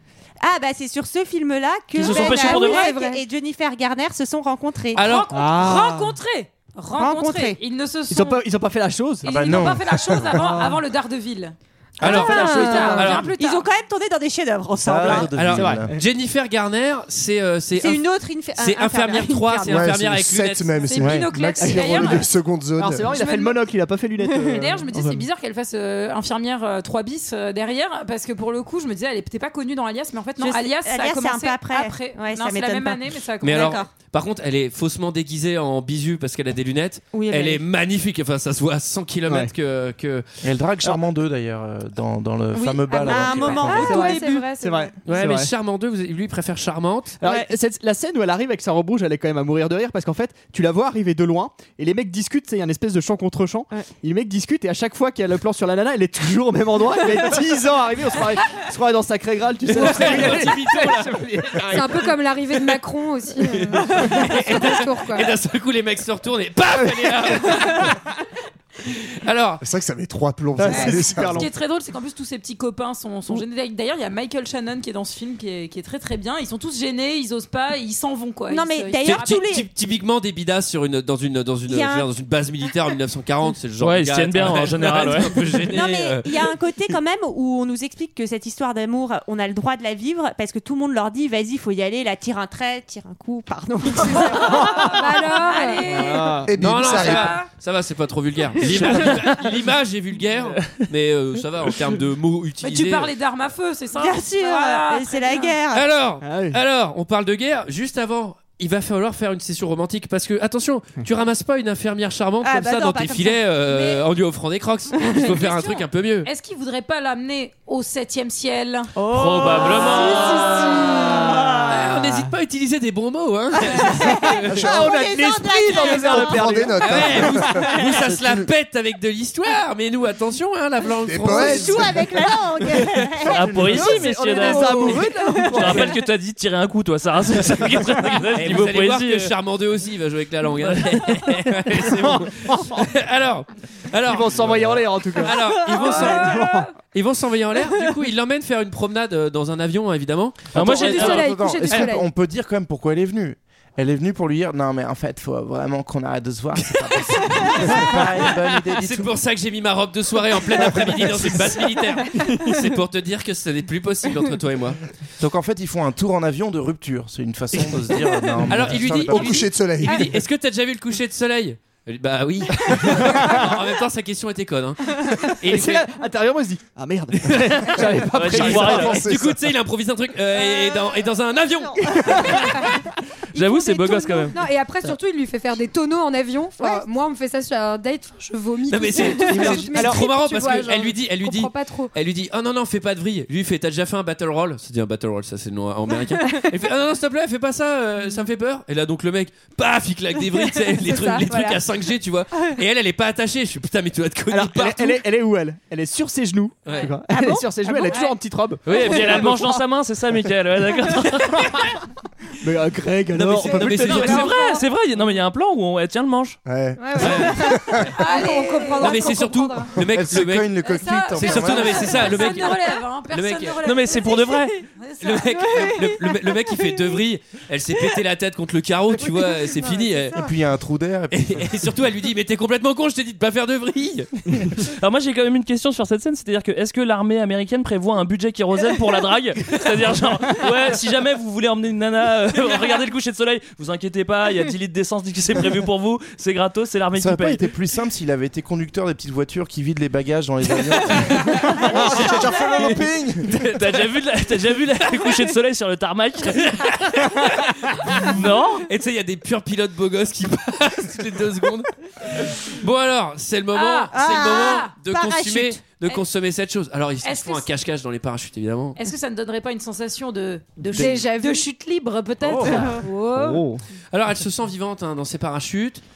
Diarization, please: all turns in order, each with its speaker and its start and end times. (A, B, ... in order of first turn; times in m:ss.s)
0:00.4-0:05.0 A
0:02.0-0:02.9 B
0:02.0-0:03.2 C
0:05.0-0:05.3 D
0:05.0-0:08.4 E
0:05.3-0:06.2 F
0:07.0-0:07.6 A
0:08.1-0:09.3 F
0:09.2-0:13.7 E
0:09.3-0:10.4 G
0:10.3-0:10.8 F
0:12.0-0:13.1 C
0:12.0-0:13.3 D
0:12.4-0:12.9 F
0:12.7-0:15.3 A
0:14.8-0:15.9 G
0:15.0-0:16.0 F
0:15.1-0:20.9 D
0:17.8-0:19.9 A
0:19.7-0:23.1 H
0:20.8-0:22.3 E
0:21.0-0:21.3 G
0:21.6-0:22.2 F
0:22.8-0:25.3 F
0:23.0-0:23.6 E
0:24.4-0:33.8 E
0:30.4-0:33.9 A
0:33.4-0:40.2 D
0:37.1-0:37.6 A
0:39.3-0:39.5 F
0:40.4-0:44.0 G
0:42.5-0:44.3 A
0:42.9-0:44.9 C
0:43.0-0:44.4 E
0:44.6-0:45.5 F
0:45.0-0:47.2 D
0:47.2-1:01.7 F
0:47.2-0:47.5 A
0:59.7-1:02.1 D
0:59.9-1:00.4 B
1:01.7-1:05.3 C
1:03.4-1:08.0 D
1:08.9-1:09.6 D
1:09.6-1:11.5 H
1:10.6-1:11.5 F
1:10.7-1:19.5 E
1:18.5-1:19.7 A
1:19.0-1:26.9 D
1:21.7-1:22.1 A
1:23.8-1:25.5 B
1:25.6-1:34.6 A
1:34.1-1:37.5 E
1:34.8-1:35.9 C
1:35.9-1:36.5 F
1:36.4-1:37.4 H
1:36.6-1:43.1 D
1:40.6-1:40.8 B
1:42.6-1:45.6 E
1:44.0-1:45.9 A
1:45.7-1:56.3 D
1:46.2-1:46.6 F
1:52.4-1:53.4 A
1:53.7-1:54.0 E
1:55.2-1:58.9 E
1:59.0-2:02.0 A
1:59.1-2:00.6 B
1:59.5-2:01.3 E
2:01.6-2:04.7 D
2:03.6-2:06.7 A
2:04.4-2:08.1 F
2:04.5-2:05.0 H
2:05.8-2:08.5 H
2:06.8-2:12.0 D
2:07.5-2:08.0 A
2:11.0-2:12.0 H
2:11.2-2:15.6 A
2:12.8-2:16.1 F
2:13.2-2:19.3 B
2:17.6-2:18.2 F
2:18.4-2:31.8 D
2:20.6-2:21.6 B
2:21.9-2:22.9 F
2:24.0-2:26.7 F
2:24.4-2:24.8 G
2:25.6-2:26.7 E
2:30.5-2:31.3 B
2:30.5-2:39.1 G
2:30.6-2:32.1 C
2:37.4-2:44.8 D
2:40.7-2:41.4 G
2:45.2-2:49.4 G
2:48.5-2:55.9 D
2:48.5-2:50.2 H
2:52.9-2:53.5 F
2:55.1-2:59.0 F
2:57.2-3:02.7 D
2:58.1-2:59.0 B
2:58.3-2:59.4 H
3:00.4-3:01.0 A
3:01.9-3:02.4 F
3:03.3-3:04.9 B
3:03.4-3:11.9 C
3:08.7-3:25.0 D
3:09.3-3:10.0 F
3:20.8-3:21.6 C
3:24.3-3:29.6 F
3:27.1-3:28.0 A
3:28.7-3:31.5 B
3:32.4-3:34.4 F
3:33.1-3:34.4 D
3:33.7-3:34.6 E
3:33.9-3:36.4 B
3:36.5-3:37.9 H
3:36.8-3:39.7 C
3:37.0-3:37.8 D
3:37.9-3:39.2 E
3:38.8-3:43.6 D
3:39.8-3:42.1 G
3:40.6-3:45.8 E
3:43.6-3:44.6 B
3:45.0-3:50.3 D
3:50.2-3:51.5 G
3:51.1-3:54.1 D
3:54.5-4:07.5 B
4:07.0-4:13.2 G
4:11.6-4:13.2 H
4:13.3-4:13.8 D
4:13.3-4:17.1 B
4:16.3-4:28.9 D
4:17.9-4:18.7 B
4:23.5-4:24.7 E
4:23.9-4:25.6 A
4:27.0-4:27.5 E
4:28.8-4:33.5 E
4:30.8-4:31.5 C
4:32.3-4:32.7 D
4:32.4-4:33.6 F
4:33.9-4:35.8 D